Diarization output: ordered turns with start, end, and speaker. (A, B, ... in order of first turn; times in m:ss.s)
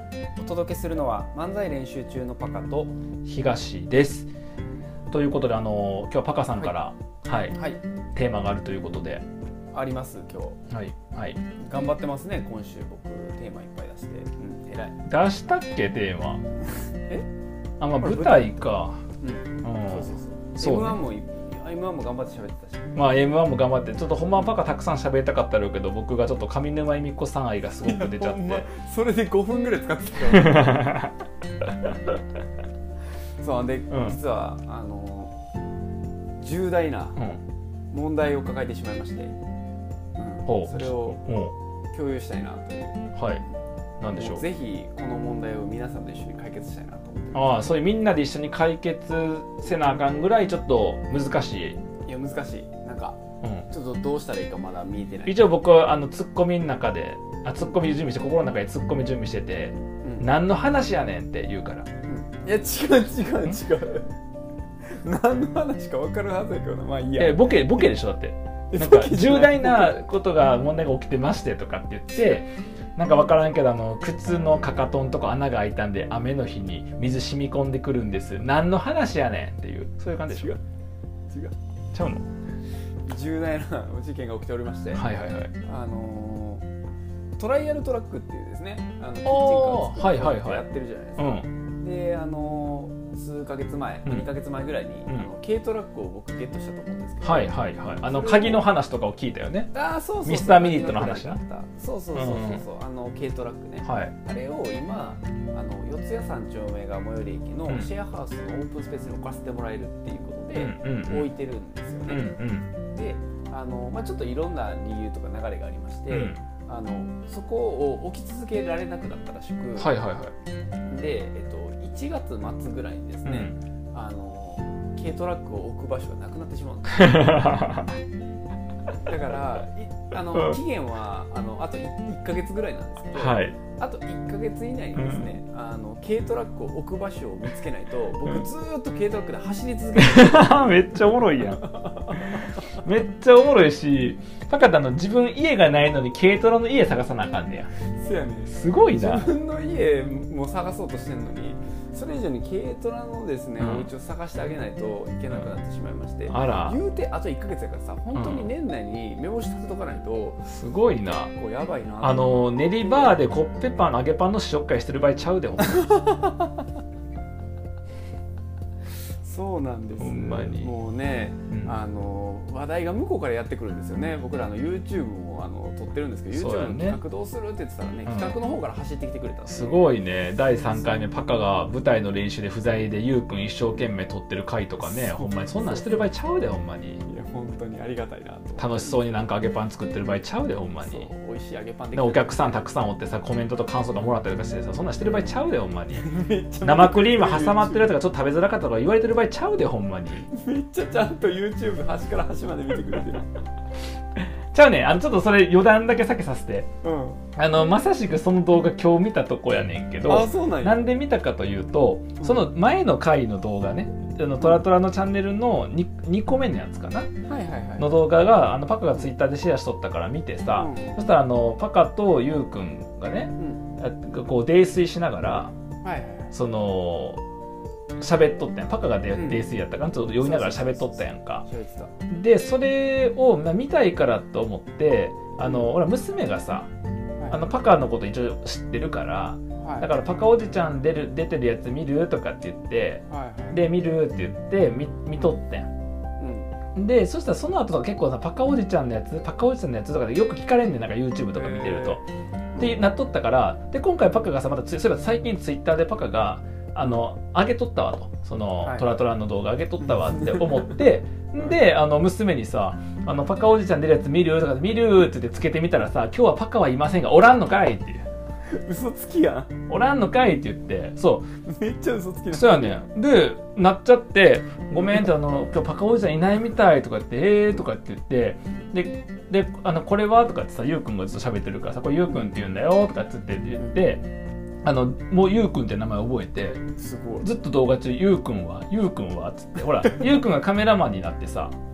0:00.4-0:03.0 A
0:03.2-0:04.3 B
0:05.1-0:07.6 B
0:07.5-0:07.8 A
0:08.1-0:09.2 B
0:09.7-0:10.6 A
0:10.7-0:11.4 B
0:11.6-0:15.0 A
0:15.1-0:16.4 B
0:16.7-0:17.2 A
0:17.8-0:19.0 B
0:18.0-0:23.0 A
0:19.6-0:21.0 B
0:23.0-0:28.7 B
0:27.8-0:30.9 A
0:30.3-0:31.1 B
0:33.4-0:35.3 A
0:33.9-0:34.2 B
0:36.4-0:37.2 A
0:37.9-0:39.3 A
0:40.2-0:41.2 A
0:40.5-0:41.5 B
0:41.9-0:43.0 A
0:43.2-0:43.4 B
0:44.0-0:44.4 B
0:44.1-0:47.7 A
0:47.3-0:51.8 B
0:52.1-0:55.4 A
0:53.4-0:53.7 B
0:55.2-1:01.9 B
1:00.0-1:00.3 A
1:02.1-1:04.1 A
1:04.8-1:07.9 A
1:07.2-1:20.5 B
1:08.7-1:10.0 A
1:20.3-1:20.6 A
1:21.9-1:22.2 B
1:23.1-1:25.0 A
1:24.9-1:25.5 B
1:25.6-1:26.6 A
1:27.4-1:38.7 A
1:29.2-1:30.6 B
1:31.2-1:31.5 B
1:37.2-1:39.7 B
1:39.7-1:52.3 A
1:40.2-1:41.4 B
1:42.2-1:42.6 B
1:43.8-1:44.1 B
1:50.5-1:51.3 B
1:52.1-1:52.7 B
1:52.9-1:59.9 A
1:56.1-1:56.4 B
1:59.8-2:00.3 B
2:00.9-2:07.3 A
2:03.2-2:03.6 B
2:06.9-2:08.0 B
2:09.0-2:22.5 A
2:10.3-2:10.6 B
2:13.1-2:13.6 B
2:14.9-2:15.3 B
2:20.0-2:27.7 B
2:27.9-2:40.4 A
2:28.5-2:29.3 B
2:33.6-2:33.9 B
2:36.3-2:36.8 B
2:38.1-2:38.5 B
2:40.4-2:41.3 B
2:41.3-2:43.2 A
2:42.0-2:45.9 B
2:45.8-2:46.4 A
2:49.2-3:00.0 A
2:50.0-2:50.7 B
2:51.5-2:51.8 B
2:56.3-2:57.0 B
2:58.1-2:58.4 B
2:59.5-3:07.0 B
3:04.8-3:06.1 A
3:07.0-3:09.3 A
3:08.6-3:11.1 B
3:10.8-3:12.7 A
3:11.9-3:16.1 B
3:15.9-3:18.0 A
3:16.6-3:20.3 B
3:20.3-3:23.3 A
3:24.5-3:26.7 B
3:26.8-3:27.2 A
3:27.4-3:37.1 B
3:30.0-3:30.9 A
3:32.2-3:32.5 A
3:37.3-3:38.0 A
3:37.8-3:45.5 B
3:40.5-3:41.1 A
3:43.4-3:43.6 A
3:45.8-3:46.3 A
3:46.3-3:47.2 B
3:48.0-3:51.4 B
3:49.2-3:51.9 A
3:52.1-3:56.7 B
3:57.2-3:57.5 A
3:57.3-4:05.7 B
3:59.6-3:59.9 A
4:03.1-4:03.7 A
4:06.2-4:06.5 A
4:06.8-4:12.0 B
4:11.3-4:12.0 A
4:12.5-4:12.9 A
4:12.6-4:28.1 B
4:18.6-4:18.9 A
4:20.0-4:20.7 A
4:28.5-4:29.5 A
4:29.7-4:31.3 B
4:31.4-4:32.8 A
4:32.3-4:44.1 B
4:44.6-4:46.6 B
4:46.8-4:47.3 A
4:47.2-4:51.5 B